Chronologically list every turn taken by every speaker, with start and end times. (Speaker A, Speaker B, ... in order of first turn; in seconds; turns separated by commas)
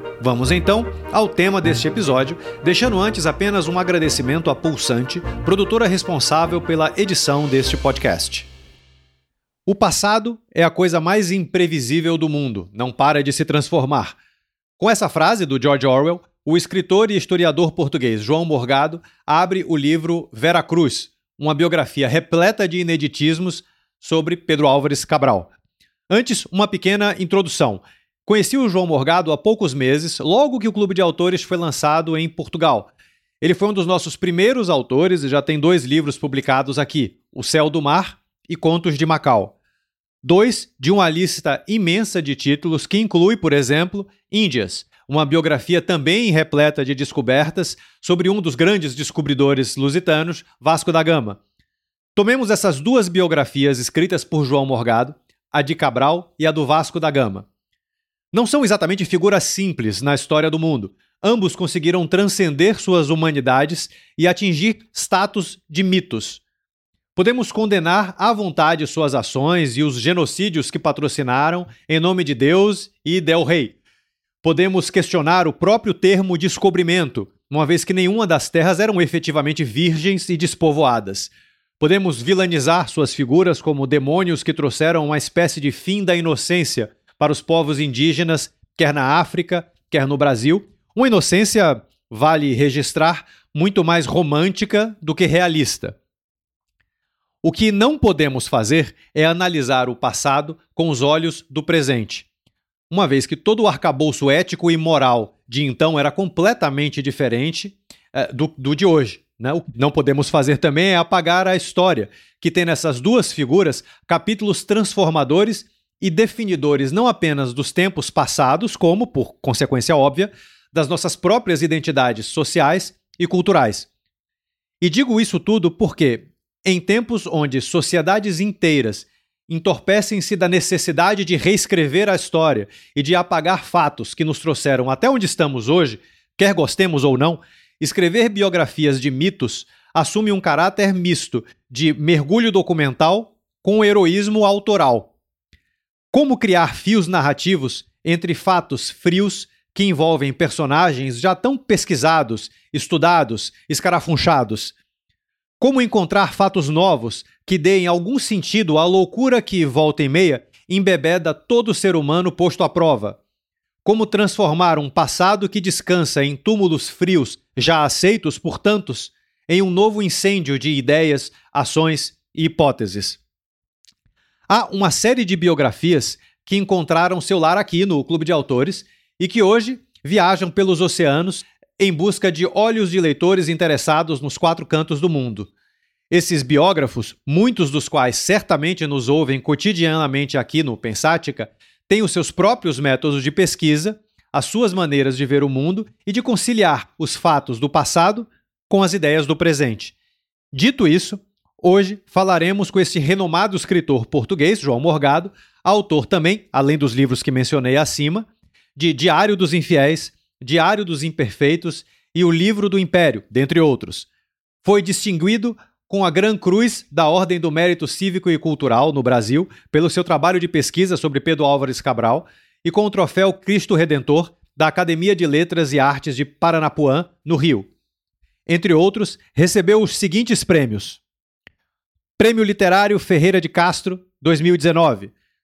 Speaker A: 0.2-8.5, Speaker A: 9.7-14.2, Speaker A: 14.8-25.5, Speaker A: 26.1-32.9, Speaker A: 33.4-39.5, Speaker A: 40.2-51.4, Speaker A: 52.1-57.5, Speaker A: 58.3-66.4, Speaker A: 67.2-73.8, Speaker A: 74.4-96.0, Speaker A: 97.4-102.2, Speaker A: 102.9-123.9, Speaker A: 124.8-145.1, Speaker A: 146.1-154.7, Speaker A: 155.6-163.2, Speaker A: 163.8-173.2, Speaker A: 174.5-185.5, Speaker A: 186.1-199.9, Speaker A: 200.5-214.1, Speaker A: 214.6-227.7, Speaker A: 228.5-231.0, Speaker A: 232.2-235.1